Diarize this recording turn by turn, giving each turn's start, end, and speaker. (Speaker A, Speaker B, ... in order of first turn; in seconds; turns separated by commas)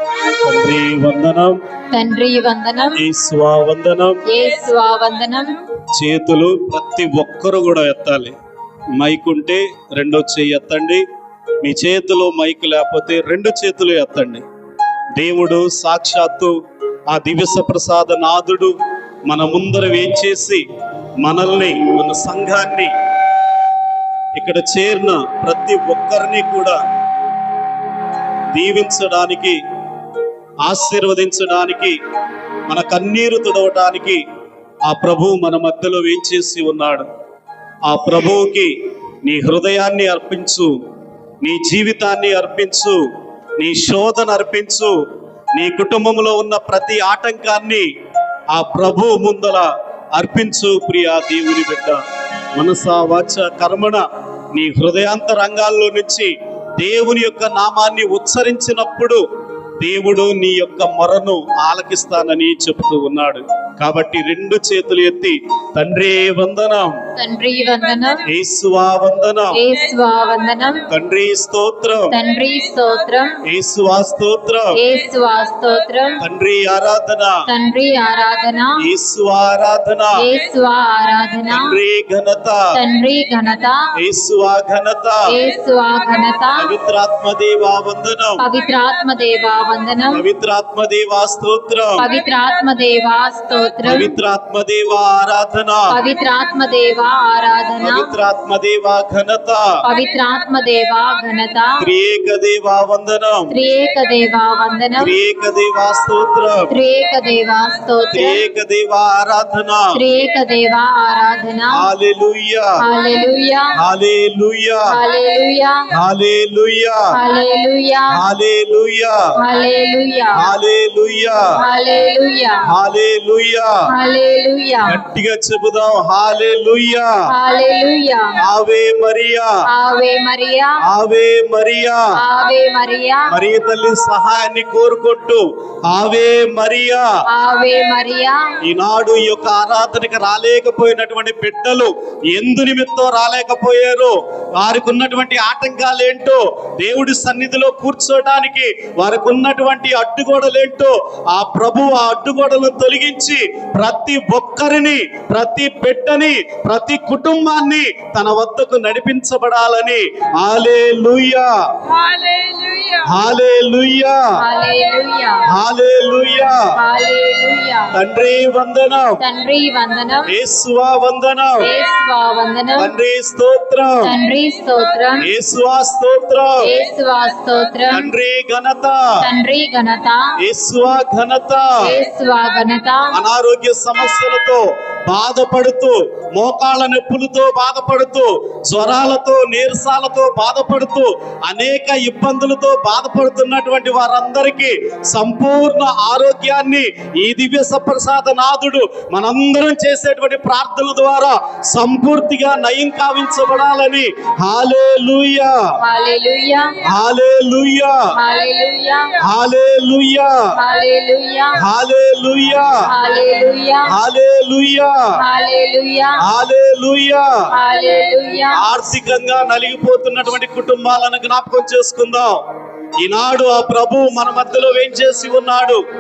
Speaker A: 0.3-1.6, Speaker B: 1.9-3.0, Speaker A: 3.0-4.2, Speaker B: 4.3-5.6, Speaker A: 5.9-8.3, Speaker A: 9.0-11.0, Speaker A: 11.6-14.4, Speaker A: 15.2-16.5, Speaker A: 17.1-18.8, Speaker A: 19.3-20.6, Speaker A: 21.2-22.9, Speaker A: 24.4-26.8, Speaker A: 28.5-29.6, Speaker A: 30.6-32.0, Speaker A: 32.7-34.2, Speaker A: 34.9-37.1, Speaker A: 37.9-38.7, Speaker A: 39.2-40.8, Speaker A: 41.4-43.0, Speaker A: 43.6-44.9, Speaker A: 45.5-47.9, Speaker A: 48.5-52.0, Speaker A: 52.5-59.2, Speaker A: 59.8-67.0, Speaker B: 67.2-68.3, Speaker A: 68.3-69.6, Speaker B: 69.5-70.9, Speaker A: 70.9-72.2, Speaker B: 72.1-73.4, Speaker A: 73.5-74.8, Speaker B: 74.8-76.2, Speaker A: 76.2-77.4, Speaker B: 77.5-78.8, Speaker A: 78.8-80.2, Speaker B: 80.2-81.8, Speaker A: 81.5-82.7, Speaker B: 82.7-83.9, Speaker A: 84.0-85.3, Speaker B: 85.3-86.6, Speaker A: 86.6-88.5, Speaker B: 88.4-90.2, Speaker A: 90.1-92.1, Speaker B: 92.0-94.1, Speaker A: 93.8-96.0, Speaker B: 95.9-98.2, Speaker A: 97.8-99.7, Speaker B: 99.8-101.8, Speaker A: 101.8-103.5, Speaker B: 103.5-105.1, Speaker A: 105.0-106.7, Speaker B: 106.7-108.5, Speaker A: 108.1-110.0, Speaker B: 109.9-111.9, Speaker A: 111.7-112.8, Speaker B: 112.8-113.8, Speaker A: 113.8-114.9, Speaker B: 114.9-115.9, Speaker A: 115.9-117.1, Speaker B: 117.1-118.1, Speaker A: 118.1-119.2, Speaker B: 119.4-120.5, Speaker A: 120.4-121.5, Speaker B: 121.6-122.7, Speaker A: 122.7-123.7, Speaker B: 123.9-125.0, Speaker A: 124.9-127.1, Speaker B: 127.3-128.4, Speaker A: 128.4-129.5, Speaker B: 129.7-130.8, Speaker A: 130.9-132.0, Speaker B: 132.2-133.3, Speaker A: 133.3-137.0, Speaker B: 137.3-138.6, Speaker A: 138.6-161.5, Speaker A: 163.0-164.2, Speaker B: 164.4-165.4, Speaker A: 165.5-166.7, Speaker B: 166.8-167.9, Speaker A: 167.9-169.2, Speaker B: 169.2-170.3, Speaker A: 170.3-171.7, Speaker B: 171.6-172.9, Speaker A: 172.8-174.1, Speaker B: 174.0-175.3, Speaker A: 175.2-176.7, Speaker B: 176.6-178.1, Speaker A: 177.9-179.0, Speaker B: 179.2-180.4, Speaker A: 180.4-181.9, Speaker B: 181.8-183.2, Speaker A: 183.1-205.5, Speaker B: 205.8-206.8, Speaker A: 206.8-208.0, Speaker B: 208.1-209.2, Speaker A: 209.2-210.3, Speaker B: 210.6-211.6, Speaker A: 211.6-212.7, Speaker B: 212.9-213.9, Speaker A: 213.9-214.9, Speaker B: 215.2-216.2, Speaker A: 216.2-217.3, Speaker B: 217.5-218.6, Speaker A: 218.5-222.4, Speaker A: 223.0-225.8